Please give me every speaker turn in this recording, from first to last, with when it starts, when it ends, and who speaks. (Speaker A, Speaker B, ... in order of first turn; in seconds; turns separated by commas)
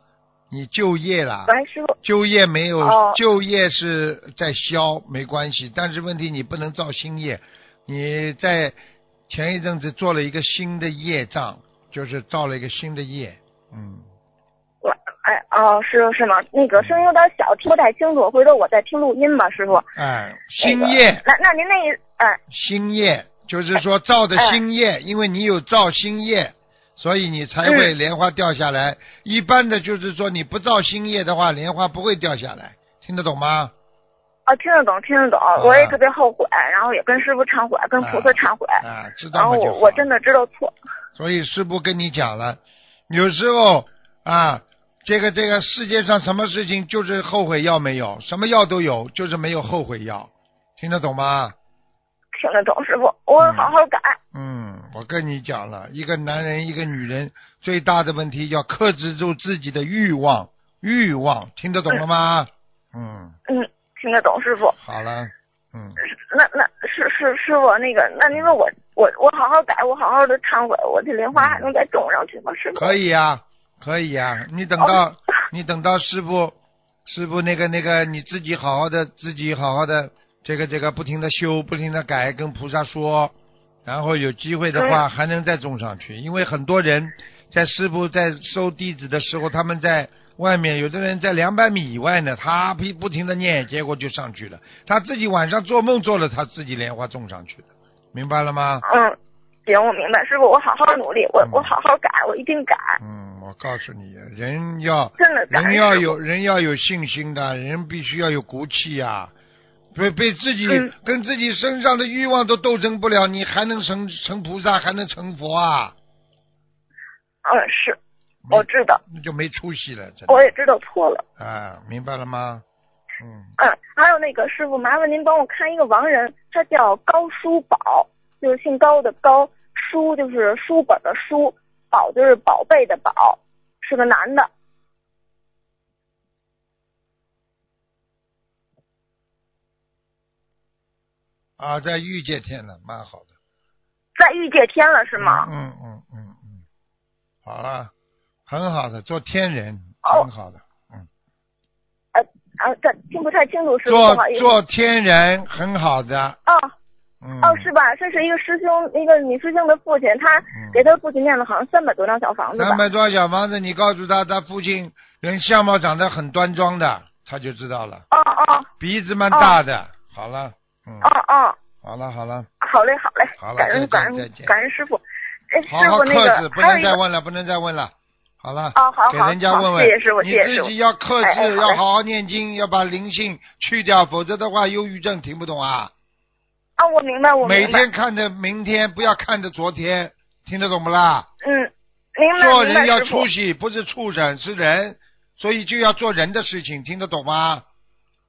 Speaker A: 0.5-8.8, Speaker B: 1.5-1.9, Speaker B: 2.8-3.2, Speaker A: 9.3-14.1, Speaker B: 14.8-19.9, Speaker A: 16.8-17.0, Speaker A: 20.0-21.2, Speaker B: 20.6-22.4, Speaker A: 22.5-33.7, Speaker B: 27.6-27.9, Speaker B: 34.5-38.8, Speaker A: 35.6-36.0, Speaker A: 38.0-40.1, Speaker B: 39.4-40.7, Speaker A: 41.2-51.5, Speaker B: 52.4-54.2, Speaker A: 53.4-53.7, Speaker A: 54.3-63.4, Speaker B: 63.5-64.8, Speaker A: 64.8-66.0, Speaker B: 66.0-72.9, Speaker A: 71.3-71.7, Speaker A: 72.8-83.3, Speaker A: 83.9-98.8, Speaker B: 84.8-85.0, Speaker B: 98.8-103.0, Speaker A: 101.4-101.7, Speaker A: 103.0-109.3, Speaker B: 105.2-106.1, Speaker A: 110.0-116.0, Speaker B: 117.5-118.0, Speaker A: 118.5-120.5, Speaker B: 118.5-119.0, Speaker B: 120.3-121.2, Speaker A: 121.4-122.6, Speaker A: 123.2-123.5, Speaker B: 123.6-134.5, Speaker A: 141.6-143.3, Speaker B: 144.2-145.5, Speaker A: 145.2-146.6, Speaker A: 147.4-147.9, Speaker A: 148.5-151.1, Speaker B: 152.1-154.5, Speaker A: 153.9-156.4, Speaker B: 156.5-156.7, Speaker A: 157.2-157.7, Speaker B: 157.4-162.8, Speaker A: 160.5-160.9, Speaker A: 162.6-168.1, Speaker B: 168.1-168.7, Speaker A: 168.8-171.1, Speaker B: 169.3-169.6, Speaker B: 171.0-171.6, Speaker A: 171.8-172.5, Speaker B: 172.6-177.0, Speaker A: 173.4-174.6, Speaker A: 175.7-185.9, Speaker B: 178.8-180.7, Speaker B: 181.2-181.8, Speaker B: 186.8-187.9, Speaker A: 187.4-191.3, Speaker B: 191.4-193.3, Speaker A: 192.4-197.7